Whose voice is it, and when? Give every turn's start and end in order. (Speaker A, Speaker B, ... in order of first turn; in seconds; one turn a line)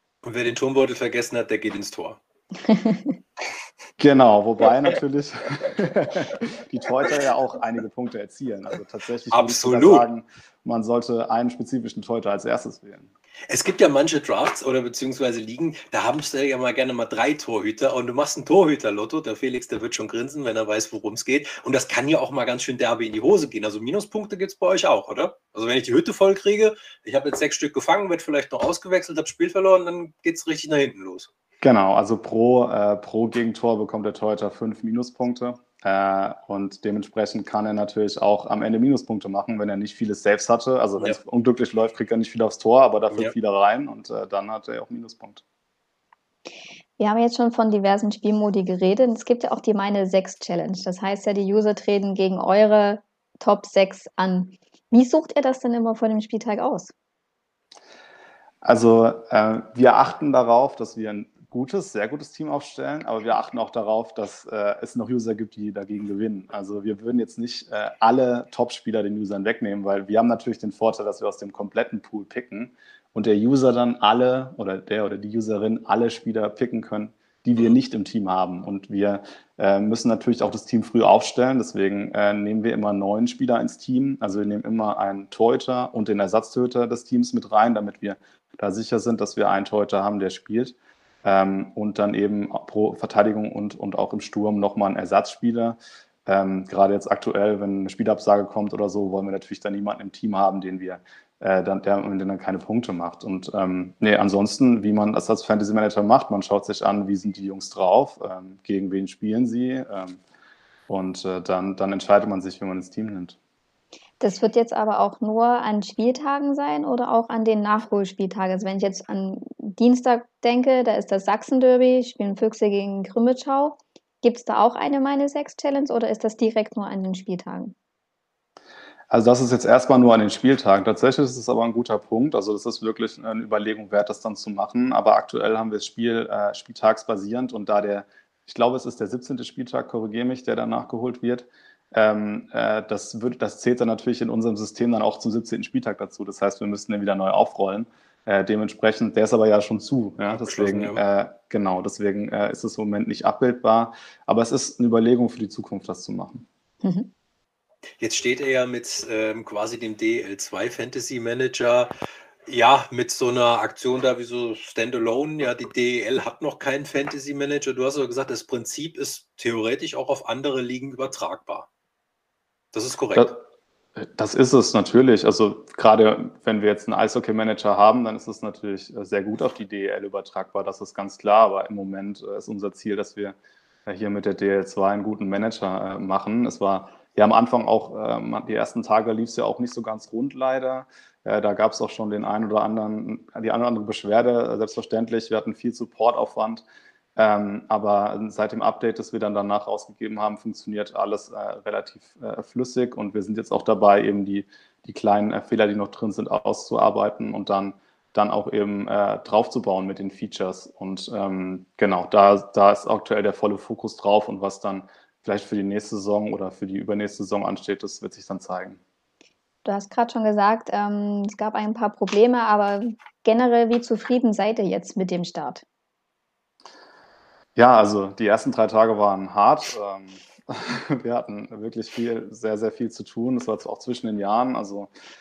Speaker A: 0.2-2.2
Speaker B: 2.6-3.2
Speaker C: 4.0-13.1
Speaker A: 9.3-10.1
Speaker A: 13.5-31.3
Speaker C: 31.6-45.4
Speaker B: 47.0-56.9
Speaker C: 58.6-110.2
Speaker C: 110.9-113.4
Speaker B: 114.2-127.8
Speaker C: 129.1-156.5
Speaker A: 150.3-151.0
Speaker B: 156.8-157.1
Speaker A: 158.0-161.9
Speaker A: 162.5-171.7
Speaker A: 172.7-173.3
Speaker C: 173.2-173.4
Speaker C: 174.0-196.6
Speaker C: 197.2-218.8
Speaker B: 219.7-225.6
Speaker C: 227.6-234.9